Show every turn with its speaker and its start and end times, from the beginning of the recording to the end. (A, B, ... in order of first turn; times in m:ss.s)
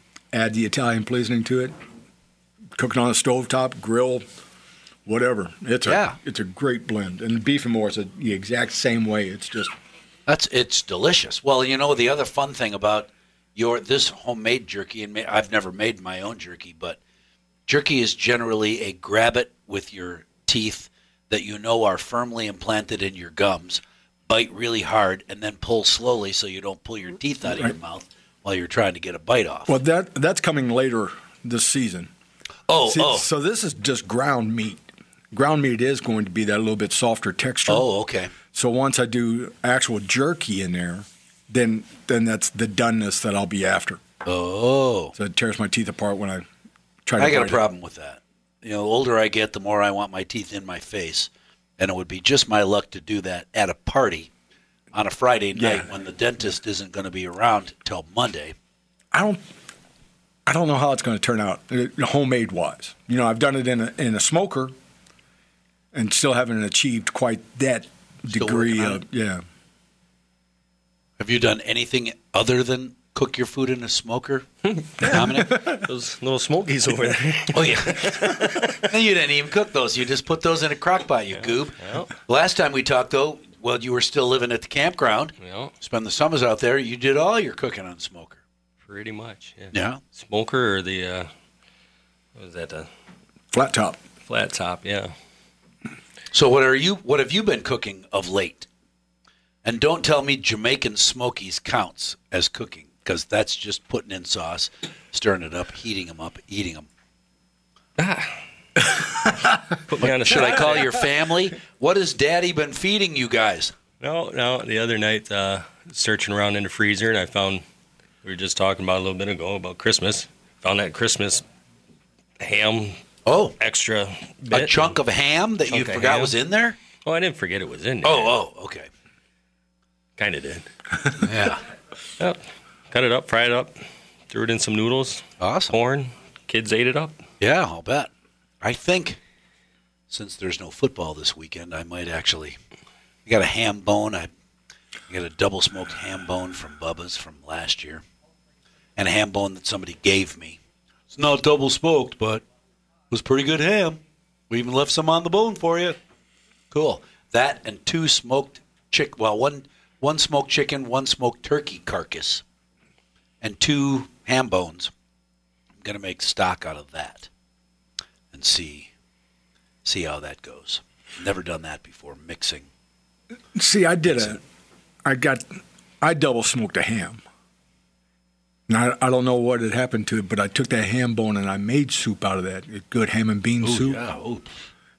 0:00.3-0:01.7 A
0:02.7-0:04.2 A
0:05.0-0:09.7 A
0:05.8-0:06.2 B
0:10.3-0:17.0 B
0:17.7-0:29.8 B
0:29.7-0:32.1 A
0:32.7-0:33.2 B
0:32.8-0:37.9 A
0:37.7-0:38.3 B
0:38.5-0:44.0 A
0:44.2-0:45.1 B
0:45.1-0:46.4 A
0:47.0-0:47.6 A
0:47.2-0:54.3 B
0:54.9-0:58.5 B
0:55.6-0:55.9 A
0:59.1-0:59.4 A
1:00.4-1:04.7 A
1:05.9-1:09.4 A
1:08.3-1:09.0 B
1:11.2-1:14.4 B
1:14.7-1:18.8 C
1:15.0-1:15.6 B
1:15.1-1:15.8 A
1:17.5-1:28.4 B
1:21.4-1:22.1 C
1:25.4-1:25.7 C
1:28.8-1:31.3 C
1:29.7-1:30.0 B
1:32.4-1:32.9 C
1:33.5-1:34.0 A
1:34.2-1:35.1 C
1:36.3-1:38.7 B
1:39.6-1:46.9 B
1:48.0-1:48.4 C
1:49.9-1:51.0 C
1:50.0-1:53.7 B
1:54.0-1:57.6 C
1:58.2-2:01.4 C
2:02.4-2:03.0 C
2:03.2-2:03.6 B
2:03.6-2:04.9 C
2:04.5-2:06.8 B
2:05.7-2:06.3 C
2:07.0-2:08.4 C
2:08.0-2:08.9 B
2:10.2-2:10.6 C
2:11.2-2:11.6 B
2:12.2-2:13.8 C
2:14.3-2:17.2 C
2:15.4-2:15.8 B
2:17.4-2:18.1 B
2:18.6-2:19.2 B
2:20.1-2:22.6 B
2:23.2-2:24.3 B
2:25.1-2:28.0 B
2:29.0-2:30.6 B
2:31.1-2:32.4 B
2:33.1-2:36.0 B
2:36.7-2:42.4 B
2:43.4-2:44.9 B
2:45.8-2:47.3 B
2:48.3-2:48.9 B
2:49.8-2:52.7 B
2:53.5-2:54.4 A
2:54.1-2:54.4 B
2:55.0-2:57.2 A
2:58.7-3:04.0 A
3:03.6-3:04.4 B